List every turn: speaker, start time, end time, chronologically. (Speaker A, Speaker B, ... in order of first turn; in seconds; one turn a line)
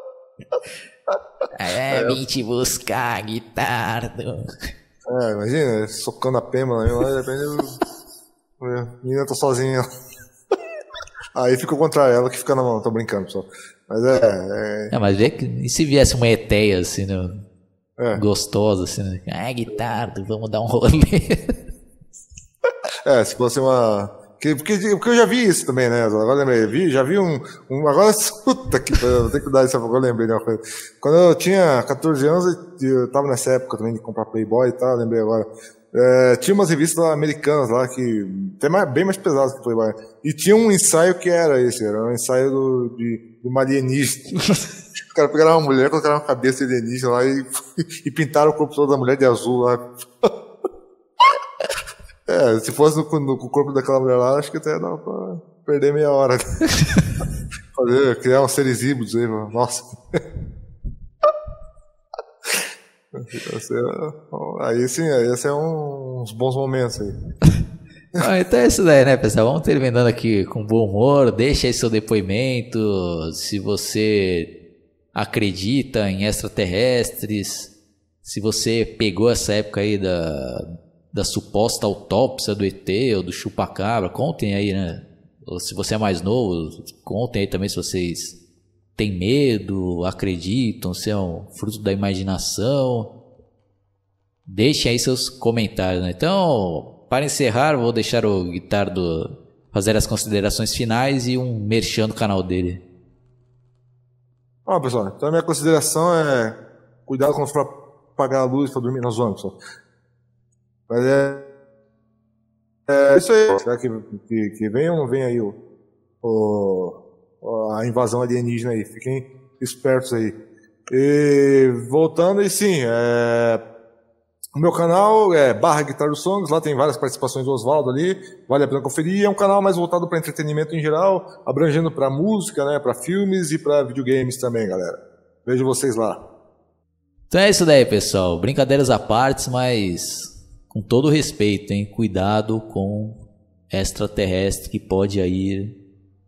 Speaker A: 1.5-4.5
Speaker B: 1.9-2.2
Speaker B: 5.1-7.8
Speaker B: 8.6-9.8
Speaker B: 11.3-14.9
Speaker A: 14.9-17.3
Speaker B: 18.0-18.2
Speaker A: 18.1-21.5
Speaker B: 23.1-50.3
Speaker B: 52.3-56.4
Speaker B: 57.8-60.2
Speaker B: 62.5-67.2
Speaker A: 68.2-74.5
Speaker A: 75.1-77.7
Speaker A: 78.2-88.4
Speaker A: 89.0-93.1
Speaker A: 94.5-102.8
Speaker B: 104.7-109.5
Speaker B: 110.9-111.4
Speaker B: 112.9-115.6
Speaker B: 116.2-120.3
Speaker B: 120.9-123.6
Speaker B: 124.6-136.2
Speaker A: 137.3-143.2
Speaker A: 143.7-145.7